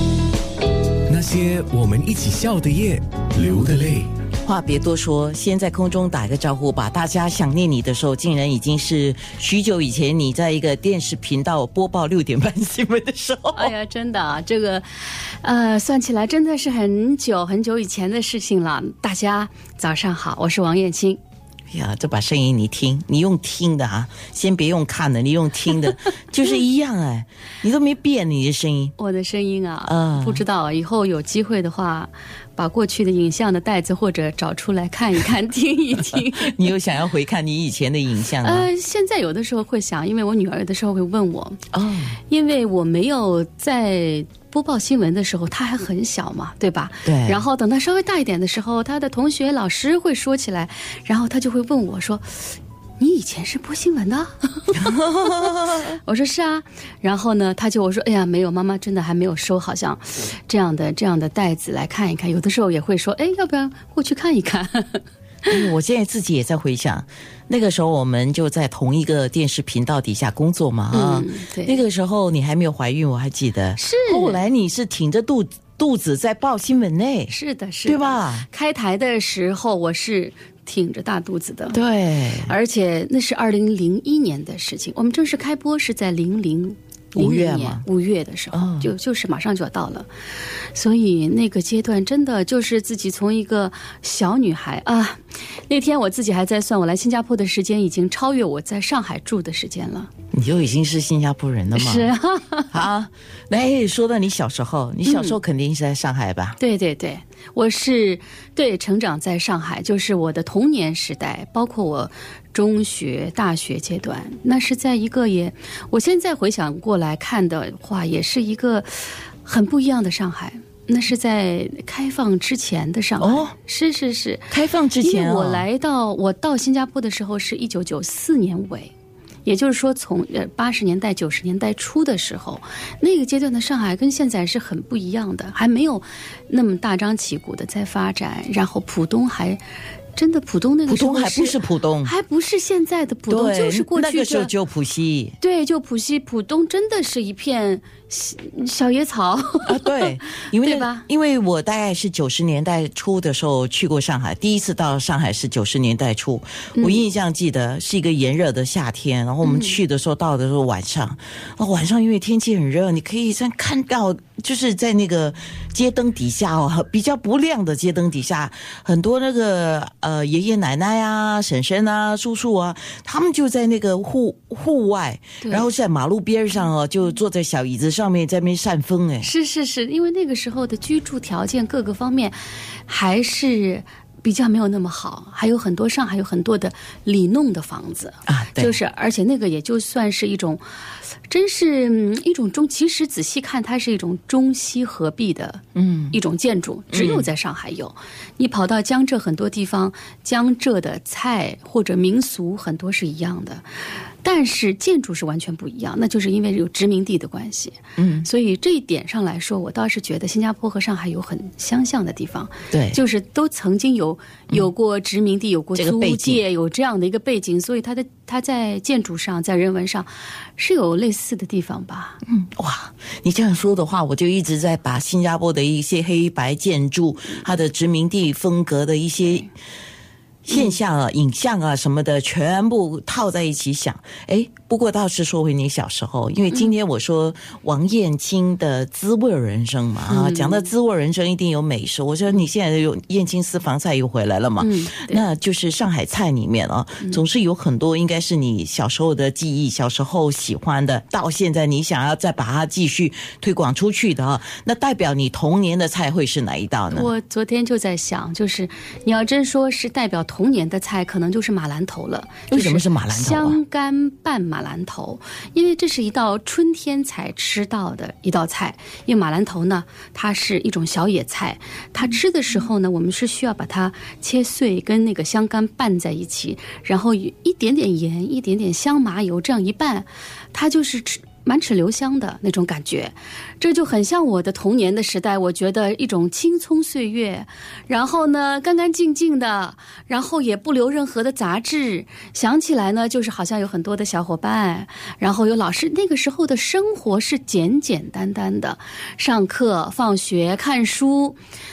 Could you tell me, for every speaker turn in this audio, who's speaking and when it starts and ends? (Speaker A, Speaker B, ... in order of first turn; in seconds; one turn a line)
Speaker A: 1.1-4.1
Speaker B: 4.4-13.7
Speaker C: 13.6-21.2
Speaker B: 21.7-28.9
Speaker C: 29.0-36.7
Speaker B: 29.9-30.4
Speaker B: 36.2-38.7
Speaker C: 38.4-41.6
Speaker B: 41.7-42.2
Speaker C: 42.2-65.6
Speaker B: 47.0-47.4
Speaker B: 54.7-55.9
Speaker B: 65.5-77.3
Speaker C: 70.9-71.8
Speaker C: 73.8-74.4
Speaker C: 77.3-81.8
Speaker B: 77.9-78.5
Speaker B: 81.7-82.5
Speaker C: 82.5-90.1
Speaker B: 87.1-87.8
Speaker B: 88.5-88.9
Speaker C: 90.7-100.1
Speaker B: 100.3-102.1
Speaker C: 101.7-102.8
Speaker B: 102.7-106.6
Speaker C: 105.1-105.4
Speaker C: 106.6-128.9
Speaker B: 123.2-123.5
Speaker B: 124.5-125.7
Speaker C: 129.4-139.6
Speaker C: 140.2-144.5
Speaker B: 140.9-142.1
Speaker B: 143.3-145.4
Speaker C: 145.4-151.1
Speaker B: 149.7-179.3
Speaker C: 156.8-157.1
Speaker C: 159.4-159.8
Speaker C: 175.4-175.7
Speaker C: 179.2-190.6
Speaker B: 188.3-188.8
Speaker C: 191.3-203.7
Speaker B: 195.8-196.2
Speaker B: 196.9-197.3
Speaker C: 204.2-222.2
Speaker B: 208.0-208.3
Speaker B: 212.7-213.0
Speaker B: 215.8-216.4
Speaker B: 222.2-229.5
Speaker B: 230.4-257.1
Speaker C: 240.1-240.7
Speaker C: 244.6-245.2
Speaker C: 256.9-301.4
Speaker B: 262.5-263.6